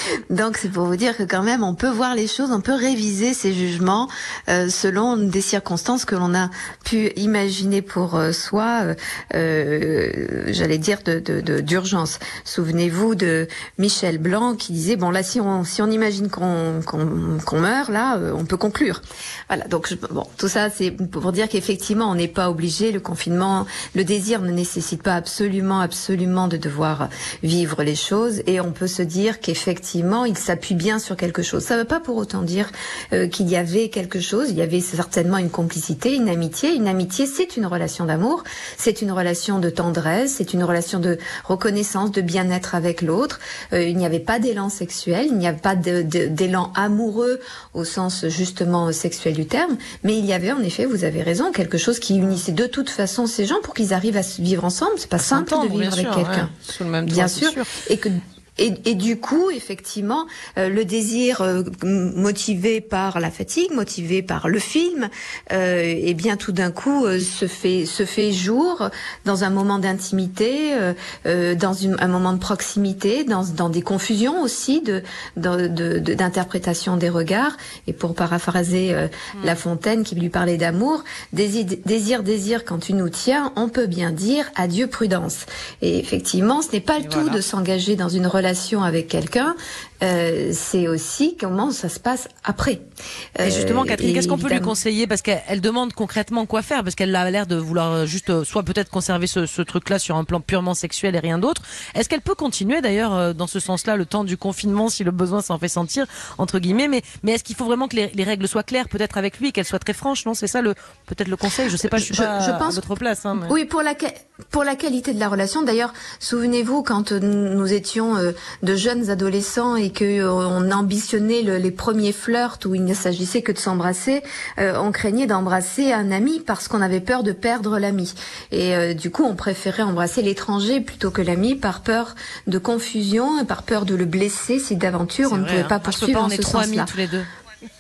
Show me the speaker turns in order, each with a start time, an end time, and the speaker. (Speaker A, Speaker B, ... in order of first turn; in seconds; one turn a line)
Speaker A: 0.3-56.5
Speaker B: 55.2-57.7
Speaker A: 57.0-92.8
Speaker B: 87.0-87.4
Speaker A: 93.4-94.7
Speaker B: 93.4-113.5
Speaker A: 111.8-136.9
Speaker B: 135.2-137.3